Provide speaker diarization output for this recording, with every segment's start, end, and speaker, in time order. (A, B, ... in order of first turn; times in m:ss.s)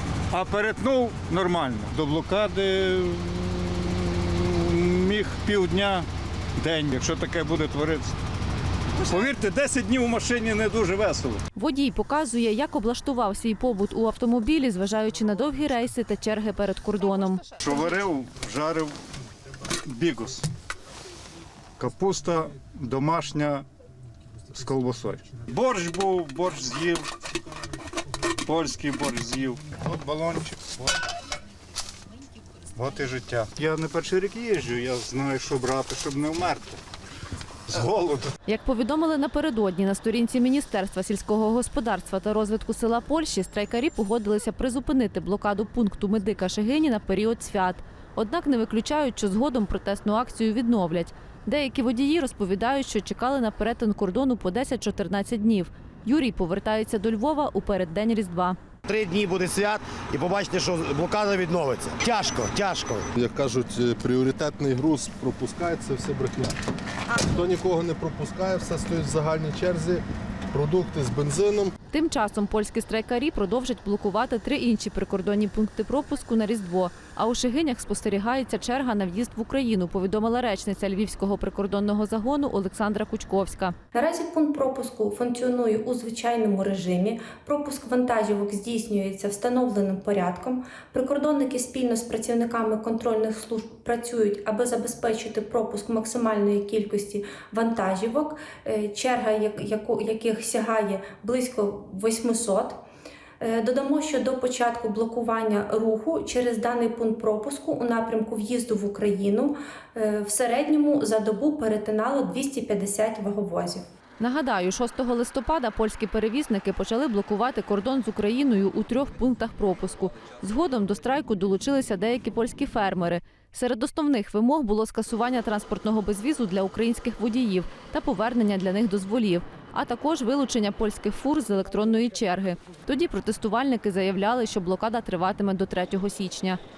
0:00.3-0:08.2 A
0:09.0-0:11.4 A
0:11.5-0:17.4 B
0:17.6-0:18.9 A
0:19.8-0:20.5 A
0:21.8-0:23.6 A
0:24.5-0:27.1 A
0:28.4-0:30.9 A
0:32.7-0:36.8 A
0:37.7-0:38.3 A
0:38.5-0:58.6 B
0:58.9-1:03.0 C
1:03.1-1:06.6 D
1:07.1-1:11.7 D
1:11.9-1:23.7 B
1:23.9-1:42.8 E
1:43.4-1:53.8 E
1:54.2-2:16.6 B